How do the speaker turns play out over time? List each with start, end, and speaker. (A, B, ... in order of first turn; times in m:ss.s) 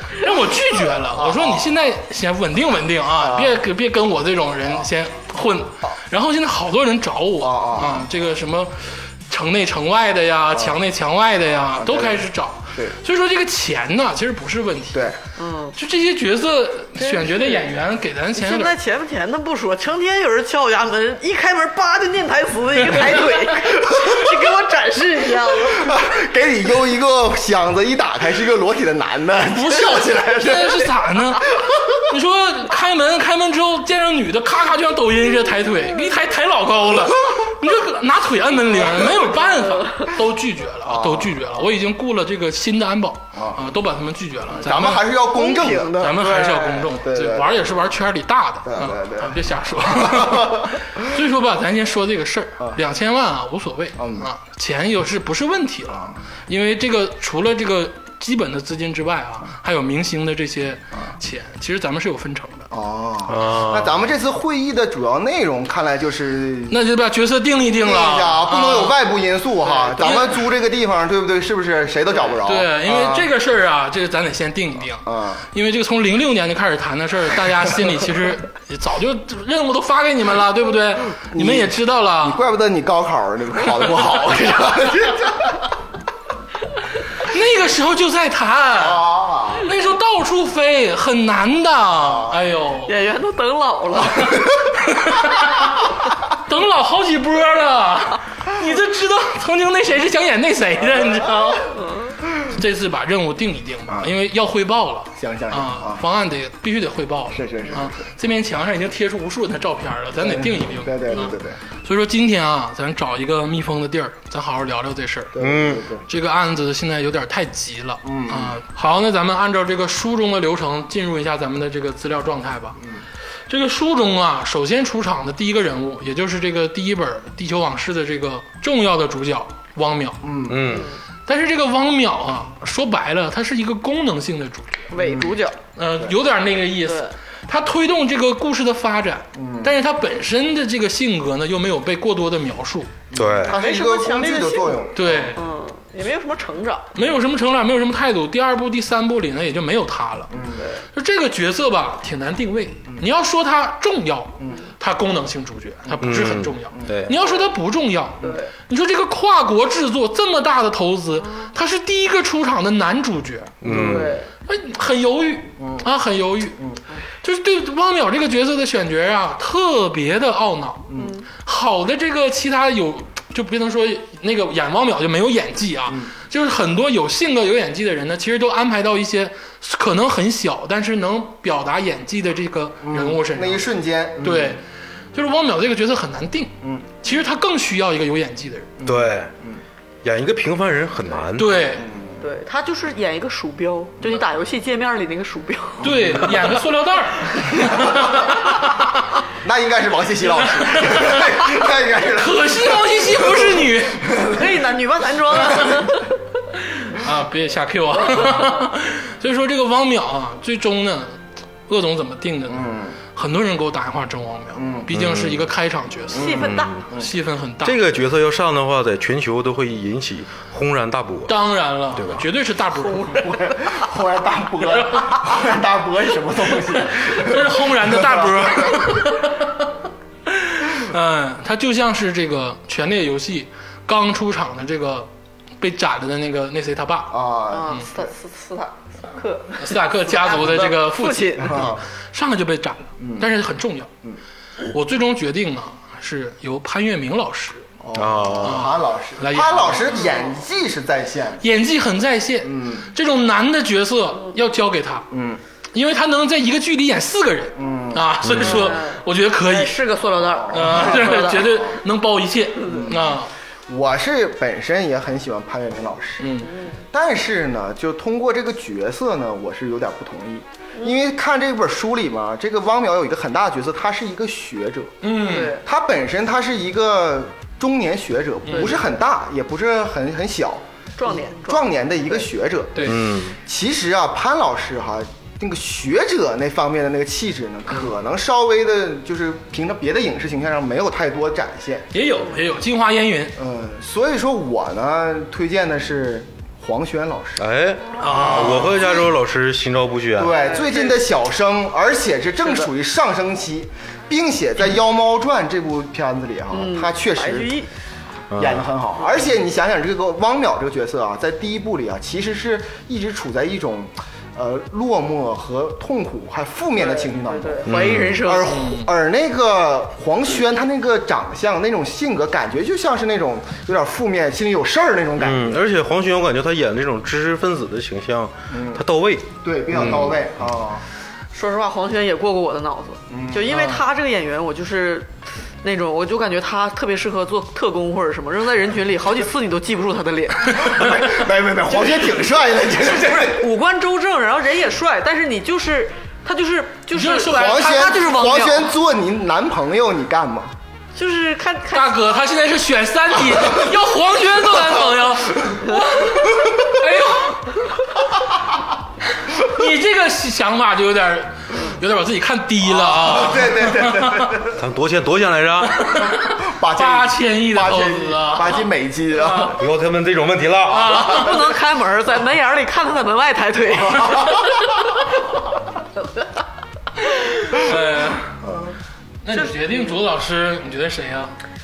0:00.1-0:15.1 A
0:01.1-0:01.7 B
0:03.2-0:03.6 B
0:07.4-0:08.1 B
0:11.7-0:13.0 B
0:15.4-0:15.8 C
0:15.8-0:18.8 A
0:17.0-0:17.7 C
0:18.4-0:25.9 C
0:25.7-0:30.9 B
0:29.6-0:45.1 A
0:31.6-0:31.9 B
0:40.8-0:41.4 B
0:43.4-0:43.6 B
0:44.6-0:46.1 B
0:45.3-0:46.9 C
0:46.0-1:02.7 A
0:46.9-0:47.7 B
0:48.6-0:50.8 B
0:54.0-0:54.3 B
1:02.7-1:06.8 B
1:03.3-1:04.0 D
1:06.7-1:09.0 A
1:07.8-1:13.3 B
1:09.8-1:10.4 A
1:12.4-1:22.4 A
1:15.0-1:15.4 B
1:21.3-1:25.7 B
1:27.2-1:32.9 A
1:28.8-1:29.7 B
1:32.0-1:32.4 B
1:32.9-1:34.5 C
1:34.9-1:55.4 A
1:41.8-1:42.1 C
1:45.2-1:46.0 B
1:47.3-1:48.0 B
1:50.2-1:51.6 B
1:55.3-1:56.0 B
1:55.4-1:55.9 D
1:56.0-2:02.8 A
1:58.0-1:58.6 B
2:03.5-2:10.3 A
2:10.2-2:10.8 B
2:10.4-2:10.9 D
2:10.7-2:11.0 C
2:11.3-2:14.9 A
2:14.9-2:15.6 C
2:15.0-2:15.3 B
2:15.8-2:22.9 A
2:16.9-2:17.1 C
2:19.4-2:19.7 B
2:23.1-2:25.3 B
2:23.1-2:23.6 D
2:23.4-2:26.9 C
2:25.0-2:25.4 A
2:27.0-2:30.4 A
2:30.3-2:30.8 B
2:30.9-2:43.6 A
2:34.4-2:34.6 B
2:36.0-2:37.1 D
2:38.2-2:38.5 C
2:43.6-2:44.2 D
2:43.6-2:44.3 C
2:44.5-2:46.7 A
2:45.6-2:45.8 B
2:47.2-3:03.7 A
2:50.9-2:51.2 B
2:51.0-2:51.3 C
3:02.8-3:04.6 B
3:04.2-3:04.6 A
3:05.1-3:08.7 A
3:08.8-3:09.6 B
3:08.8-3:09.3 D
3:10.0-3:11.6 D
3:11.4-3:11.9 A
3:11.8-3:12.2 B
3:12.2-3:15.8 C
3:15.8-3:19.0 A
3:19.4-3:24.4 B
3:20.5-3:21.5 A
3:22.2-3:24.1 A
3:24.2-3:26.1 C
3:26.8-3:37.8 A
3:32.5-3:33.0 B
3:34.6-3:34.9 B
3:34.9-3:35.5 D
3:36.1-3:36.8 C
3:36.1-3:37.1 B
3:36.4-3:36.8 D
3:37.6-3:41.4 D
3:41.3-3:43.2 A
3:41.9-3:42.2 D
3:42.9-3:43.7 C
3:43.1-3:49.1 B
3:47.1-3:49.7 A
3:50.3-3:55.1 A
3:55.6-3:57.2 A
3:57.1-3:58.1 B
3:57.5-4:01.6 C
3:59.6-4:03.9 A
4:01.4-4:01.8 B
4:03.0-4:03.3 B
4:04.7-4:07.7 A
4:07.8-4:11.4 B
4:07.9-4:08.7 D
4:08.4-4:10.0 A
4:11.4-4:15.1 A
4:12.4-4:12.9 B
4:15.1-4:15.4 B
4:15.7-4:19.8 A
4:17.6-4:18.4 B
4:18.2-4:18.7 D
4:18.4-4:21.6 C
4:20.3-4:21.7 B
4:20.5-4:23.3 A
4:22.6-4:23.1 B
4:23.7-4:26.4 B
4:26.2-4:26.5 A
4:26.9-4:51.9 B
4:35.0-4:35.6 A
4:35.3-4:35.6 C
4:38.5-4:38.8 C
4:41.0-4:41.7 C
4:42.8-4:43.0 A
4:42.8-4:43.4 D
4:51.9-4:53.4 A
4:53.4-4:57.4 B
4:57.4-5:00.4 D
4:58.0-4:58.8 A
4:58.2-4:59.1 B
5:00.2-5:07.6 B
5:00.4-5:01.0 C
5:06.5-5:07.7 C
5:08.3-5:08.6 D
5:08.3-5:25.6 B
5:16.8-5:18.6 C
5:17.7-5:18.2 D
5:18.5-5:18.9 A
5:25.2-5:30.2 D
5:28.5-5:28.8 B
5:29.4-5:30.8 B
5:31.3-5:40.9 C
5:33.1-5:33.5 B
5:33.5-5:33.8 A
5:40.6-5:43.5 B
5:41.8-5:42.1 C
5:42.8-5:48.7 C
5:46.9-5:47.9 A
5:47.3-5:50.5 B
5:51.0-5:52.2 C
5:51.7-5:57.6 A
5:59.2-6:04.4 A
6:02.6-6:04.6 B
6:04.5-6:05.9 D
6:05.7-6:08.7 A
6:05.9-6:09.6 B
6:09.2-6:09.6 A
6:09.5-6:11.0 D
6:10.7-6:11.5 A
6:11.0-6:14.5 C
6:17.0-6:18.4 A
6:18.4-6:18.7 B
6:19.2-6:21.3 A
6:19.3-6:20.0 C